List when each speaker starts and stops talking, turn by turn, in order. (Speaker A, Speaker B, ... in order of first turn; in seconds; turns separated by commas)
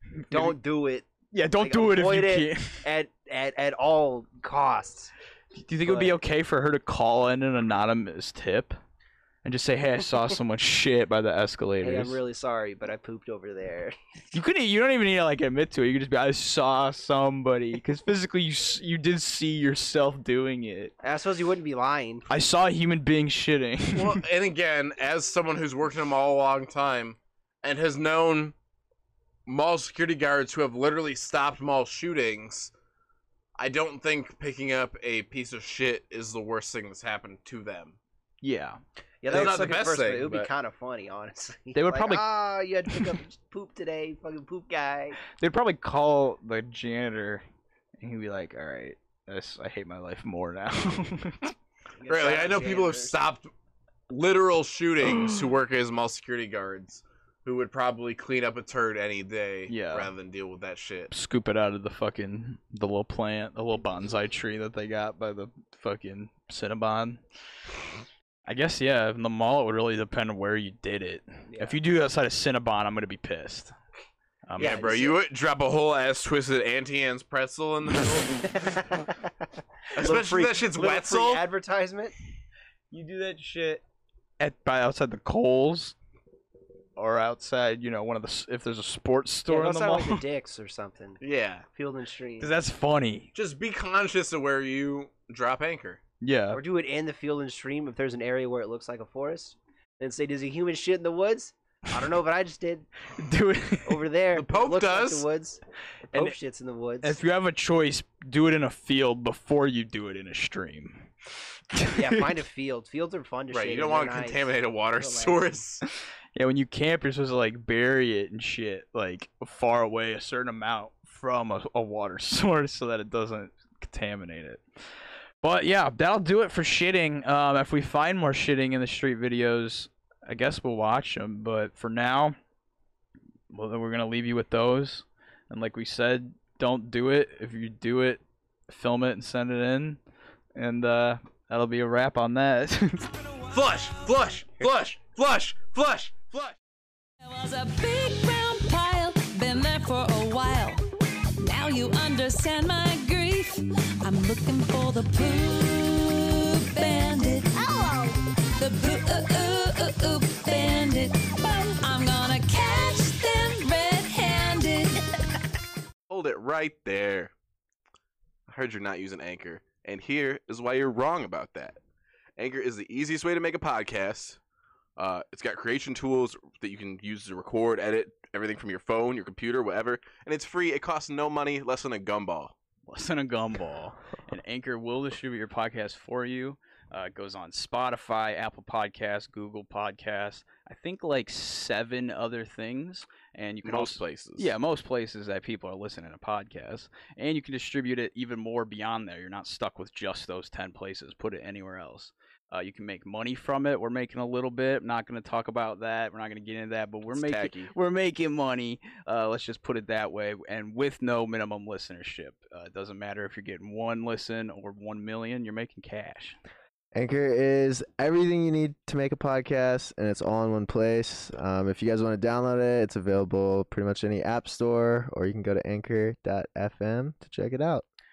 Speaker A: 0.2-0.6, Speaker B: 0.3-1.1, Speaker A: 1.3-2.9, Speaker B: 1.6-5.1, Speaker A: 5.5-8.8, Speaker B: 5.8-6.2, Speaker A: 9.4-12.2, Speaker B: 11.8-14.0, Speaker A: 14.3-20.9, Speaker B: 21.0-22.3, Speaker A: 22.3-24.2, Speaker C: 23.9-28.6, Speaker C: 29.5-32.7, Speaker C: 33.6-38.0, Speaker A: 38.4-38.8, Speaker B: 39.2-45.2, Speaker C: 39.3-40.3, Speaker A: 41.7-42.3, Speaker A: 45.3-47.4, Speaker A: 48.0-51.5, Speaker B: 52.0-53.2, Speaker C: 52.1-53.5, Speaker C: 54.1-61.1, Speaker A: 55.0-55.4, Speaker A: 59.7-60.1, Speaker A: 61.1-67.2, Speaker A: 68.5-73.8, Speaker B: 71.5-71.8, Speaker A: 74.5-74.9, Speaker B: 74.6-75.2, Speaker C: 74.6-78.8, Speaker B: 78.6-79.1, Speaker C: 80.0-81.5, Speaker B: 80.0-82.1, Speaker A: 82.9-83.8, Speaker A: 84.4-86.0, Speaker A: 87.0-90.2, Speaker B: 89.5-91.2, Speaker C: 91.2-91.7, Speaker B: 91.7-92.5, Speaker A: 92.4-93.3, Speaker C: 93.3-96.0, Speaker A: 96.2-96.6, Speaker B: 96.5-102.9, Speaker A: 103.2-104.0, Speaker B: 103.9-105.6, Speaker C: 104.3-105.3, Speaker B: 106.1-107.2, Speaker A: 107.0-111.1, Speaker A: 111.7-112.2, Speaker B: 111.9-115.6, Speaker C: 113.5-115.8, Speaker A: 116.3-124.6, Speaker A: 125.4-132.4, Speaker A: 133.5-140.0, Speaker A: 140.6-143.1, Speaker C: 143.5-146.6, Speaker D: 147.2-150.8, Speaker D: 151.4-165.0, Speaker C: 166.1-167.3, Speaker C: 168.5-171.8, Speaker C: 172.4-174.4, Speaker C: 175.0-182.5, Speaker A: 182.9-216.4, Speaker C: 193.6-194.5, Speaker C: 207.1-207.7, Speaker E: 216.9-227.8